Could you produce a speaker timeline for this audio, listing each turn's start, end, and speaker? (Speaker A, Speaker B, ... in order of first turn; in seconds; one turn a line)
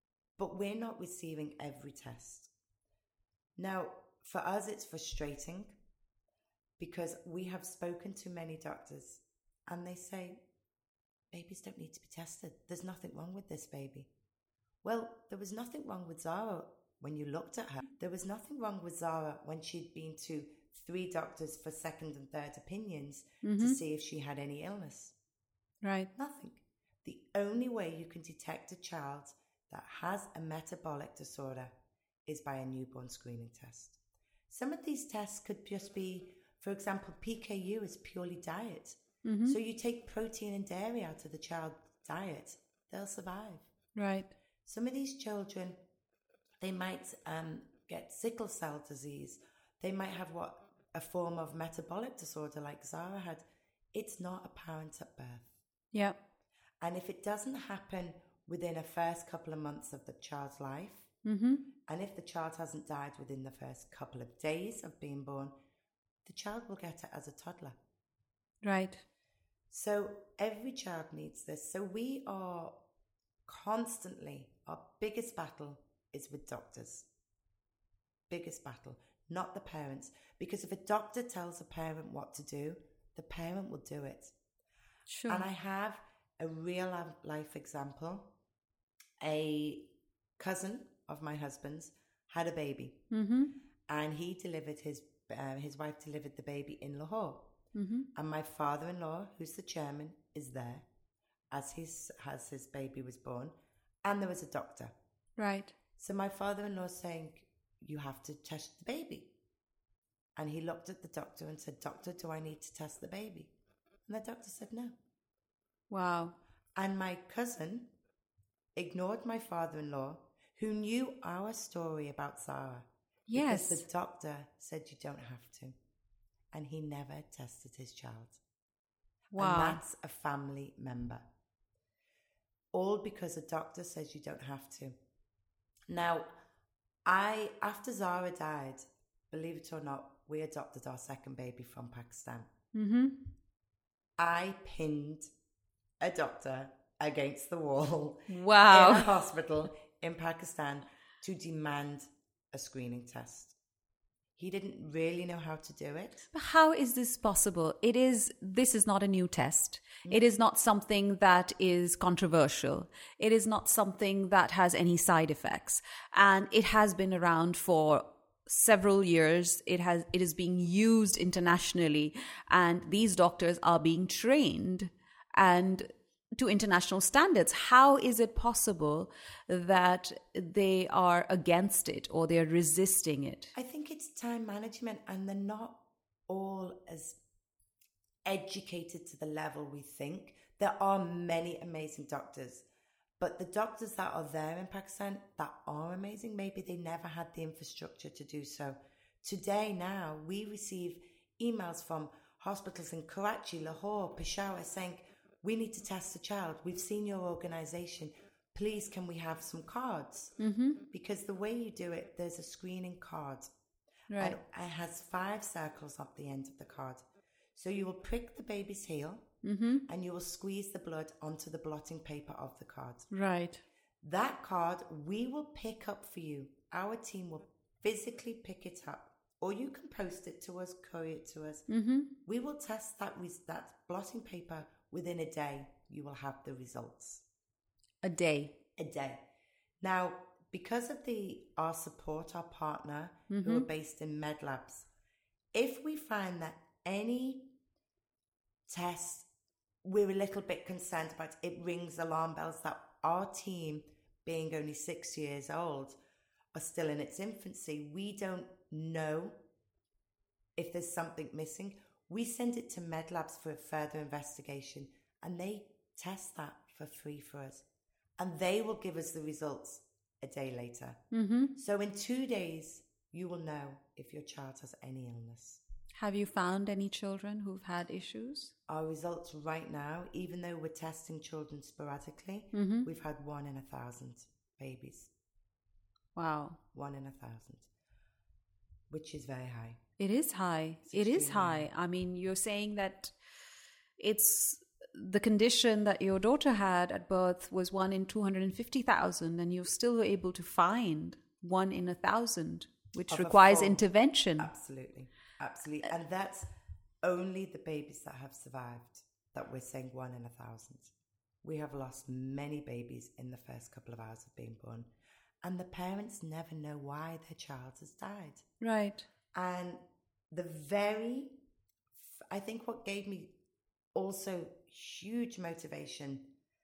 Speaker A: 0.4-2.5
Speaker A: 3.6-5.8
Speaker A: 6.8-10.4
Speaker A: 11.3-14.1
Speaker A: 14.8-25.1
Speaker B: 23.4-23.8
Speaker B: 25.8-26.1
Speaker A: 26.1-31.7
Speaker A: 32.2-34.0
Speaker A: 34.5-43.7
Speaker B: 39.2-39.5
Speaker B: 43.9-44.3
Speaker A: 44.6-45.8
Speaker A: 46.6-55.5
Speaker A: 56.8-61.1
Speaker B: 61.2-61.6
Speaker A: 61.9-65.5
Speaker A: 66.2-67.8
Speaker B: 68.6-69.0
Speaker A: 69.7-72.8
Speaker A: 73.5-77.1
Speaker A: 78.3-84.3
Speaker B: 85.1-85.4
Speaker A: 85.3-88.3
Speaker A: 89.2-93.0
Speaker B: 93.1-93.5
Speaker A: 93.9-97.5
Speaker B: 97.7-98.1
Speaker A: 98.1-100.9
Speaker A: 101.5-104.9
Speaker B: 105.4-105.8
Speaker A: 106.0-109.3
Speaker A: 110.4-113.5
Speaker A: 114.1-115.0
Speaker B: 115.9-116.4
Speaker A: 116.8-117.9
Speaker A: 118.8-125.8
Speaker B: 123.3-123.8
Speaker A: 126.5-128.4
Speaker B: 129.3-129.8
Speaker A: 129.4-131.2
Speaker A: 132.7-135.0
Speaker A: 135.9-136.3
Speaker A: 137.1-142.5
Speaker B: 142.7-143.2
Speaker A: 144.2-145.3
Speaker A: 146.0-153.5
Speaker B: 148.3-149.1
Speaker A: 154.4-156.3
Speaker B: 156.3-183.5
Speaker A: 183.5-187.2
Speaker A: 188.2-192.6
Speaker A: 193.2-210.4
Speaker B: 210.4-210.8
Speaker A: 210.9-213.5
Speaker B: 214.1-214.4
Speaker A: 214.2-217.0
Speaker A: 217.5-219.3
Speaker B: 219.4-219.8
Speaker A: 219.9-223.1
Speaker B: 223.1-223.6
Speaker A: 224.0-231.7
Speaker B: 231.7-232.1
Speaker A: 232.2-237.2
Speaker B: 238.0-238.6
Speaker A: 238.8-239.2
Speaker A: 239.8-244.9
Speaker B: 243.3-243.7
Speaker A: 245.5-247.5
Speaker A: 248.7-249.3
Speaker A: 249.8-256.0
Speaker A: 256.5-259.4
Speaker A: 260.6-267.6
Speaker A: 268.2-271.0
Speaker B: 271.1-271.5
Speaker A: 271.5-275.6
Speaker B: 275.9-278.5
Speaker A: 278.7-285.1
Speaker B: 282.5-282.9
Speaker B: 286.1-286.6
Speaker A: 286.7-287.7
Speaker A: 288.9-289.8
Speaker B: 290.0-293.1
Speaker A: 290.8-291.7
Speaker B: 294.0-304.5
Speaker A: 303.1-303.8
Speaker A: 304.4-306.5
Speaker A: 307.0-310.9
Speaker A: 311.4-314.9
Speaker A: 315.4-318.5
Speaker B: 318.6-319.1
Speaker A: 319.3-319.8
Speaker A: 320.3-321.3
Speaker A: 322.0-323.3
Speaker A: 323.9-326.3